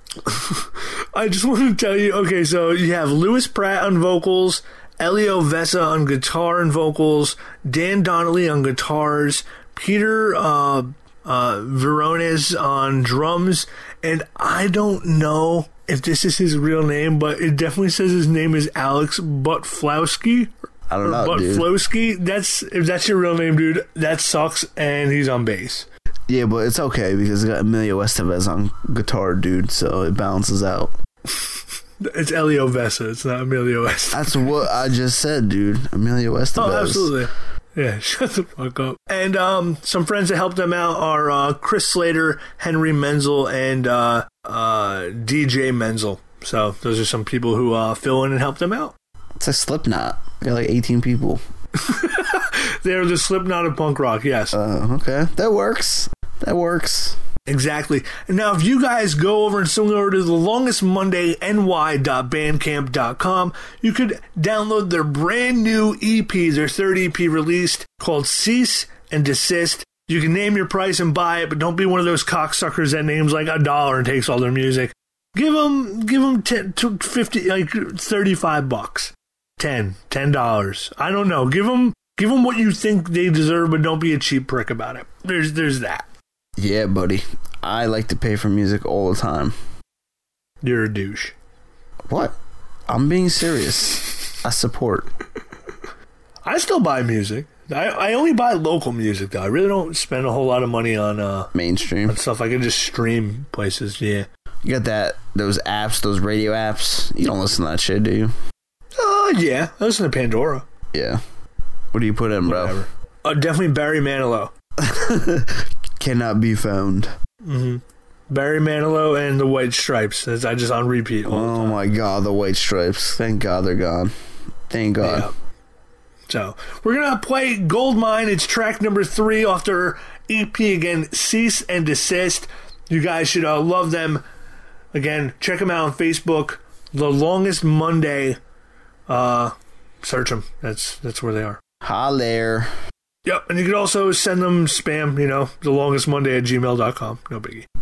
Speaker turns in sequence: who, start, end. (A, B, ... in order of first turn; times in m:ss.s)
0:00.2-0:25.9 A
0:20.9-0:21.7 B
0:26.3-0:30.9 B
0:32.0-0:34.6 A
0:34.1-0:37.2 B
0:36.6-0:49.0 A
0:49.4-0:51.4 B
0:51.8-0:54.6 A
0:54.5-0:57.2 B
0:57.5-1:26.1 A
1:26.6-1:29.6 B
1:30.6-1:31.4 A
1:32.1-1:32.4 B
1:32.9-1:35.1 B
1:36.4-1:41.5 A
1:41.5-1:42.2 B
1:42.1-1:44.3 A
1:44.6-1:48.3 B
1:49.0-1:50.7 A
1:50.9-1:51.2 B
1:51.9-1:52.8 B
1:52.5-1:54.5 A
1:54.8-1:57.1 B
1:57.4-2:01.8 A
2:01.3-2:04.1 B
2:04.7-2:05.3 B
2:05.0-2:05.3 A
2:06.3-2:14.2 A
2:14.9-2:18.4 A
2:19.1-2:21.6 A
2:21.8-2:22.7 B
2:23.2-2:27.7 A